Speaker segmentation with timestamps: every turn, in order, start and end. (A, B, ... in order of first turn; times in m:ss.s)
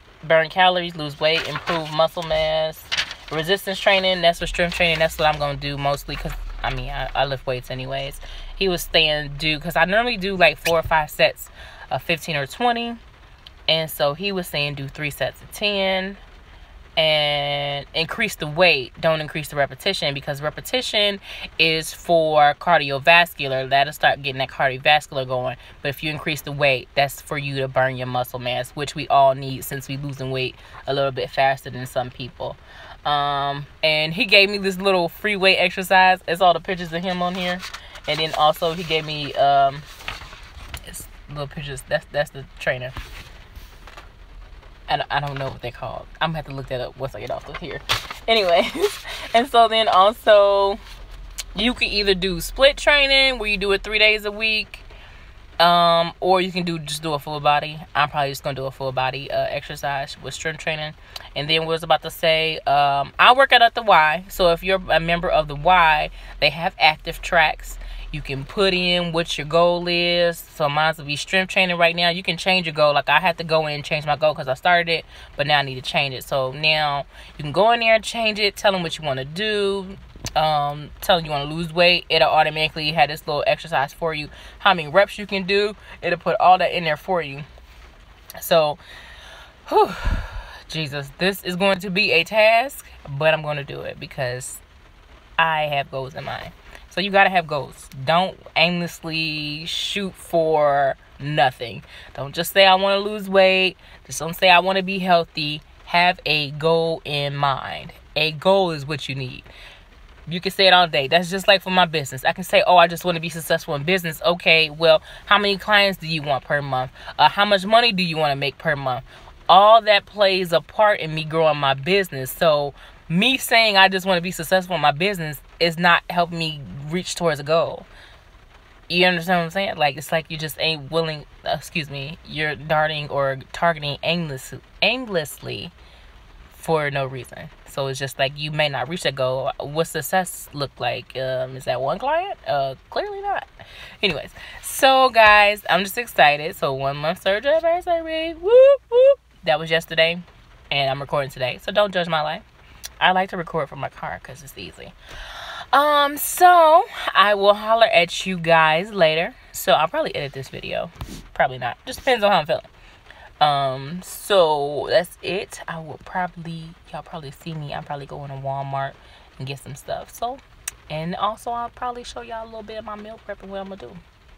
0:00.2-0:13.0 A
0:13.7-0:16.2 A
0:17.0-0:39.9 A
0:40.8-0:43.0 A
0:44.9-0:50.8 A
0:51.6-0:54.9 A
0:55.6-1:27.5 A
1:28.4-1:28.8 A
1:29.7-1:34.6 A
1:35.4-1:49.5 A
1:50.3-2:07.9 A
2:08.9-2:15.7 A
2:16.5-2:23.5 A
2:24.0-2:32.4 A
2:33.0-2:42.7 A
2:43.4-2:54.0 A